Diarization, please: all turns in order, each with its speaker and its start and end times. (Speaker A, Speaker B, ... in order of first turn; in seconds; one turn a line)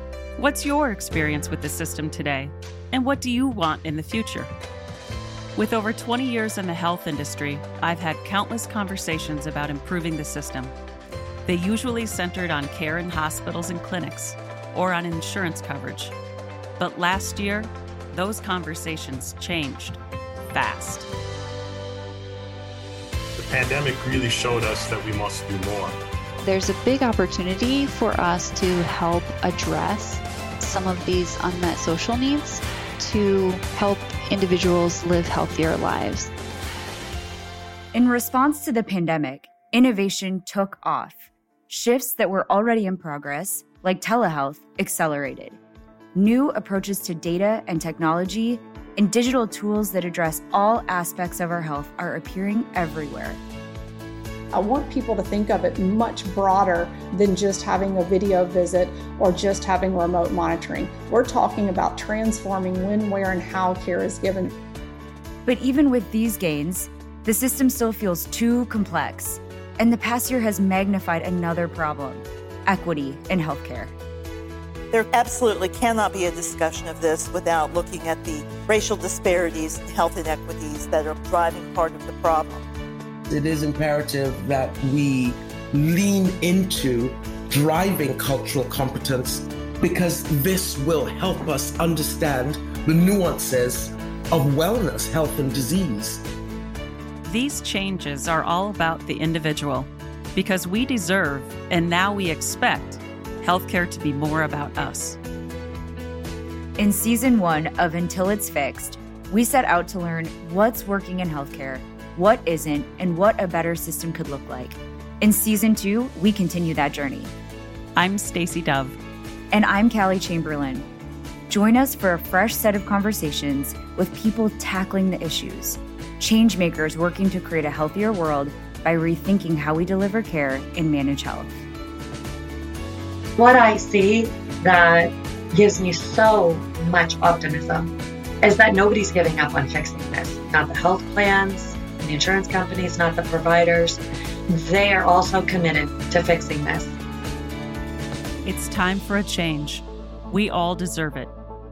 Speaker A: 0.4-4.5
Speaker A: 5.6-10.7
Speaker A: 11.5-16.1
Speaker A: 16.8-20.0
Speaker A: 20.5-21.1
Speaker B: 23.4-25.9
Speaker C: 26.4-36.3
Speaker D: 37.9-45.6
Speaker D: 46.1-53.4
Speaker E: 54.5-64.5
Speaker D: 65.5-73.9
Speaker F: 74.9-82.6
Speaker G: 83.3-96.2
Speaker A: 97.2-105.2
Speaker D: 106.8-117.3
Speaker A: 118.0-119.0
Speaker D: 119.5-120.9
Speaker D: 121.5-131.5
Speaker H: 133.4-146.9
Speaker A: 148.4-151.3